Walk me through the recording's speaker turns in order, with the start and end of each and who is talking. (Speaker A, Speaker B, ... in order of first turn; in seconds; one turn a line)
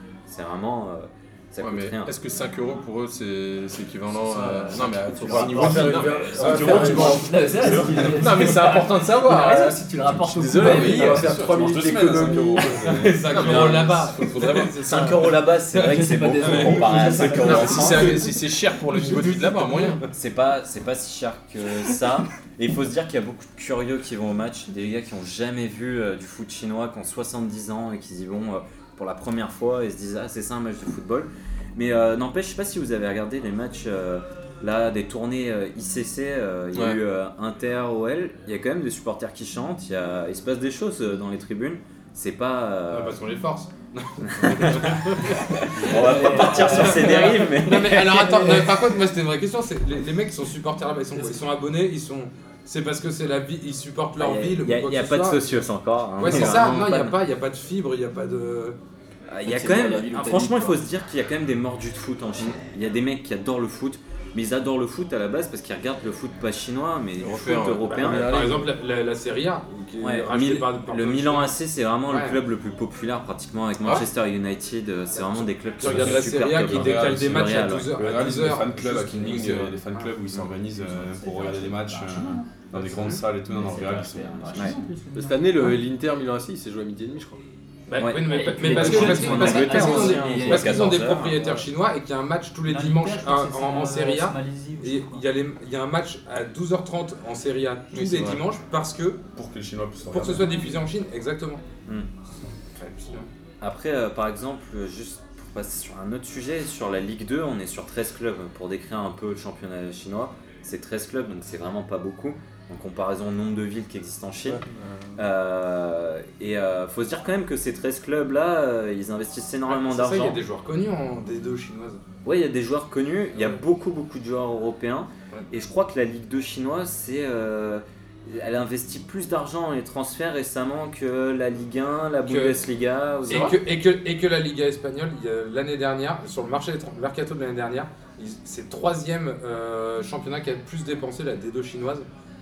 Speaker A: 0.3-2.1
Speaker B: 1.6-9.7
Speaker C: 4.3-11.4
Speaker D: 5.2-9.8
Speaker E: 6.4-8.2
Speaker D: 10.3-13.8
Speaker B: 10.4-11.2
Speaker E: 10.5-13.2
Speaker F: 12.9-15.4
Speaker B: 13.2-15.0
Speaker A: 13.4-14.0
Speaker A: 14.8-18.2
Speaker C: 15.7-18.3
Speaker F: 16.4-16.9
Speaker B: 16.7-20.0
Speaker F: 19.0-19.9
Speaker A: 20.1-43.2
Speaker B: 36.7-37.0
Speaker F: 42.9-55.6
Speaker A: 44.3-45.2
Speaker A: 45.7-48.4
Speaker C: 45.9-47.5
Speaker C: 48.2-48.8
Speaker A: 54.2-57.2
Speaker F: 56.2-58.8
Speaker A: 59.3-68.3
Speaker C: 59.5-60.8
Speaker B: 67.2-68.4
Speaker D: 67.9-68.7
Speaker F: 68.1-71.5
Speaker A: 70.0-78.0
Speaker F: 72.1-72.4
Speaker F: 75.3-79.4
Speaker E: 75.8-84.8
Speaker B: 78.3-79.8
Speaker C: 80.8-85.8
Speaker F: 82.9-83.2
Speaker D: 85.1-87.4
Speaker F: 87.9-99.2
Speaker A: 88.0-91.4
Speaker C: 88.2-91.5
Speaker C: 92.7-95.2
Speaker B: 97.9-98.4
Speaker E: 99.3-100.5
Speaker F: 100.1-101.6
Speaker F: 102.8-103.3
Speaker A: 103.6-114.6
Speaker A: 115.2-120.4
Speaker F: 119.7-122.0
Speaker A: 122.2-133.6
Speaker F: 132.3-132.6
Speaker F: 133.3-142.1